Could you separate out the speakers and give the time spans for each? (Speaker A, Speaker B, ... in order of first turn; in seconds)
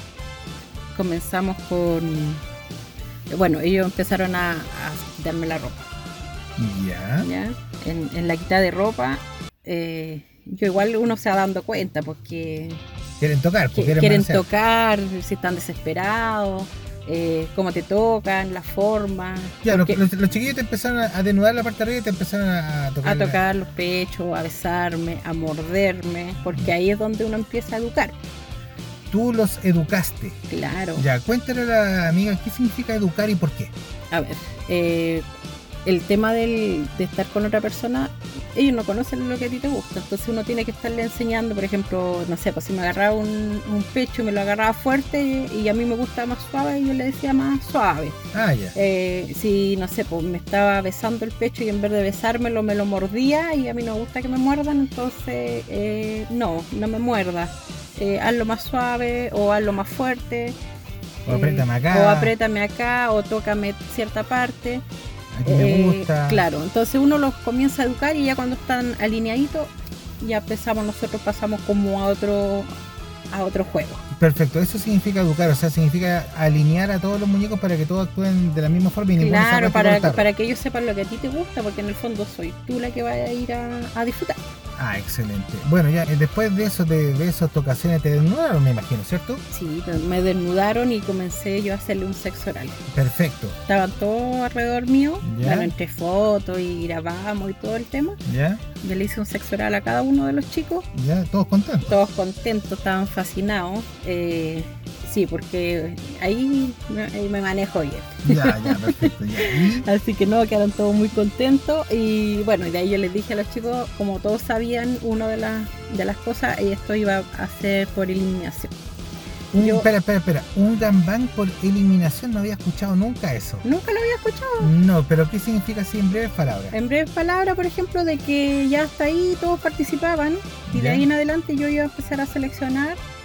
Speaker A: 0.9-2.4, 3.3-5.8, 7.2-12.8, 13.7-20.0, 23.0-28.1, 30.5-31.1, 34.1-35.3, 35.9-48.2, 48.8-60.6, 61.3-64.8, 65.5-72.7, 73.3-74.0, 79.2-84.4, 89.5-92.8, 93.7-98.2, 98.8-100.9, 101.9-118.7, 119.6-119.9, 123.6-124.7, 126.7-133.0
Speaker B: 6.6-7.3, 13.2-14.5, 19.6-23.4, 29.1-30.4, 31.0-33.7, 48.3-48.8, 61.3-62.3, 65.3-66.5, 74.1-80.3, 84.8-89.4, 92.9-93.6, 95.2-95.7, 98.3-98.6, 100.9-102.0, 108.2-109.9, 119.5-123.6, 124.6-126.8, 130.7-131.1